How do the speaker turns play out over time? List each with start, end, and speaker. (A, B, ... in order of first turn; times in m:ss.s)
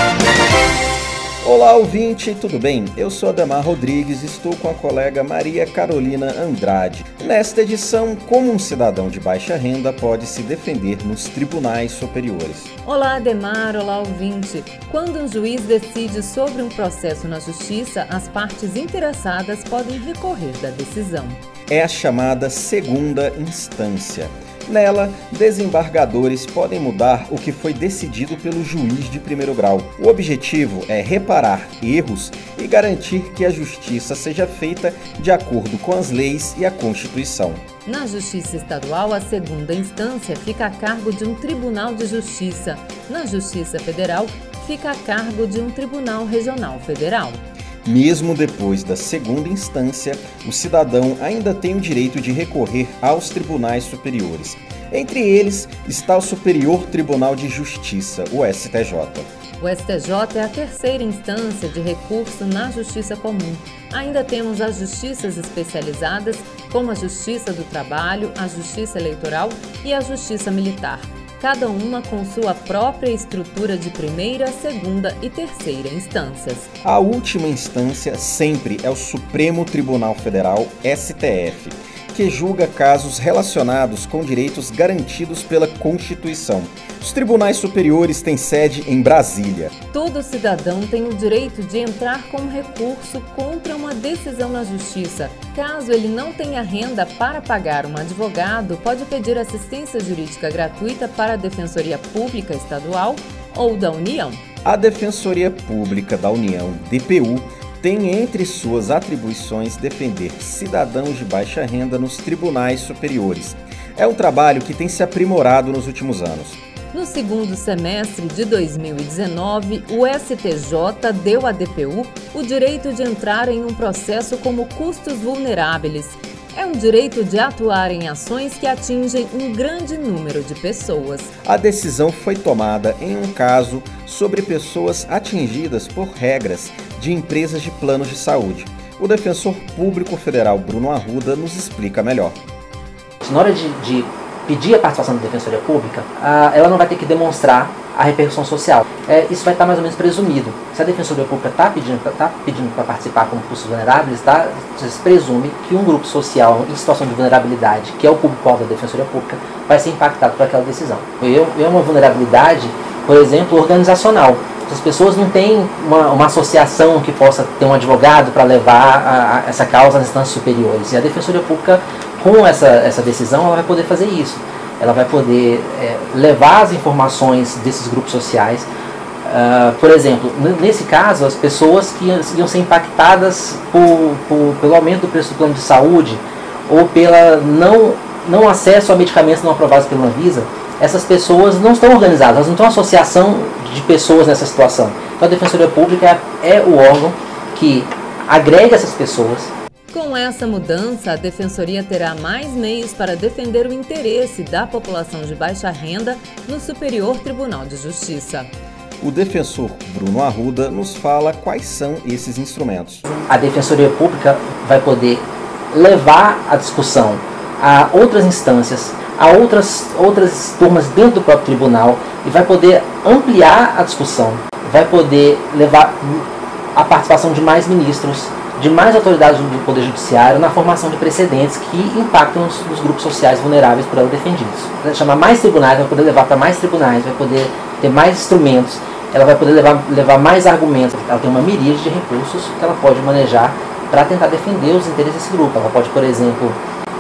0:01.4-0:12.7 A
0:12.8-0:21.4 B
0:21.7-0:37.6 A
0:37.9-0:47.4 B
0:47.8-0:59.3 A
0:59.6-1:16.7 B
1:16.8-1:29.7 A
1:29.9-1:44.4 B
1:44.6-1:56.6 A
1:56.9-2:11.3 B
2:11.5-2:22.4 A
2:23.2-2:58.7 C
2:59.2-3:19.5 C
3:19.9-3:28.5 B
3:29.0-3:33.1 A
3:33.3-4:06.6 C